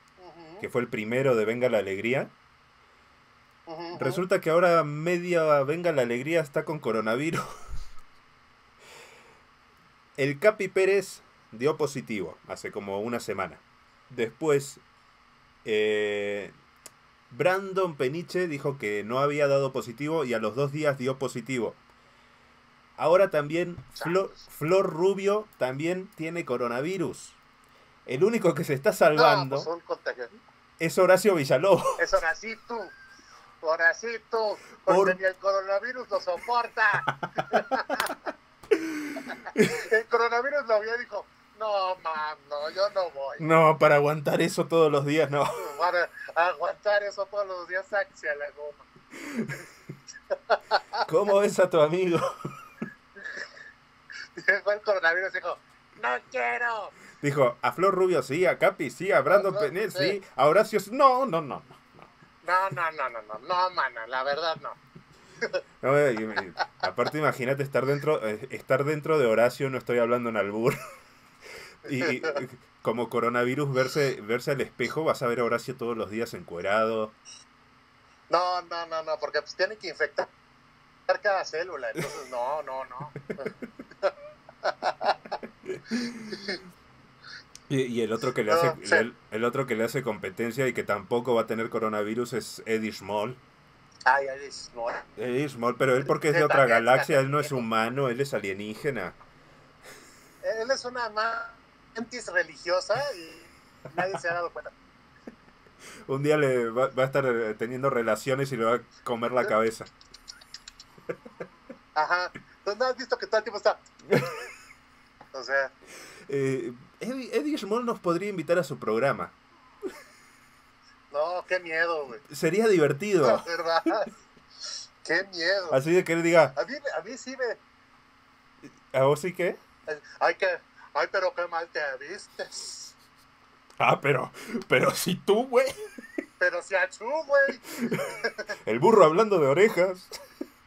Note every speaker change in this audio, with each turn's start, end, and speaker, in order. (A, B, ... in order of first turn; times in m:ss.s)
0:00.2-0:00.7 A
0:00.6-0:02.3 B
0:03.7-0:04.2 A
0:03.9-0:07.4 B
0:10.2-0:14.8 B
0:15.6-0:16.5 B
0:17.3-0:21.8 B
0:23.0-0:27.4 B
0:23.9-0:24.4 A
0:28.0-0:29.7 B
0:29.1-0:30.3 A
0:30.8-0:32.0 B
0:32.0-0:32.9 A
0:33.6-0:38.1 A
0:34.9-0:35.2 B
0:38.8-0:39.7 B
0:39.6-0:43.4 A
0:43.4-0:45.6 B
0:45.6-0:48.8 A
0:49.3-0:49.6 B
0:50.3-0:51.0 A
0:51.0-0:52.3 B
0:54.4-0:56.9 A
0:57.2-1:02.1 B
0:59.3-1:00.2 A
1:02.4-1:04.8 A
1:05.8-1:10.8 B
1:11.8-1:17.1 B
1:11.9-1:12.4 A
1:18.3-1:20.3 A
1:21.1-1:23.5 A
1:23.2-1:23.5 B
1:24.6-1:25.2 A
1:25.6-1:26.4 B
1:26.3-1:26.6 A
1:27.7-1:33.4 B
1:28.5-1:29.0 A
1:34.0-1:35.0 A
1:35.2-1:39.2 B
1:36.0-1:37.6 A
1:40.4-1:44.7 A
1:46.1-1:49.9 B
1:52.0-1:53.8 A
1:54.1-1:54.4 B
1:55.3-1:55.7 A
1:56.3-1:59.4 B
2:01.1-2:02.2 A
2:02.3-2:03.4 B
2:03.2-2:04.1 A
2:05.0-2:05.8 A
2:05.7-2:06.6 B
2:06.6-2:07.6 A
2:08.9-2:09.6 B
2:09.9-2:12.9 A
2:13.8-2:15.8 B
2:16.4-2:18.4 A
2:18.6-2:20.1 B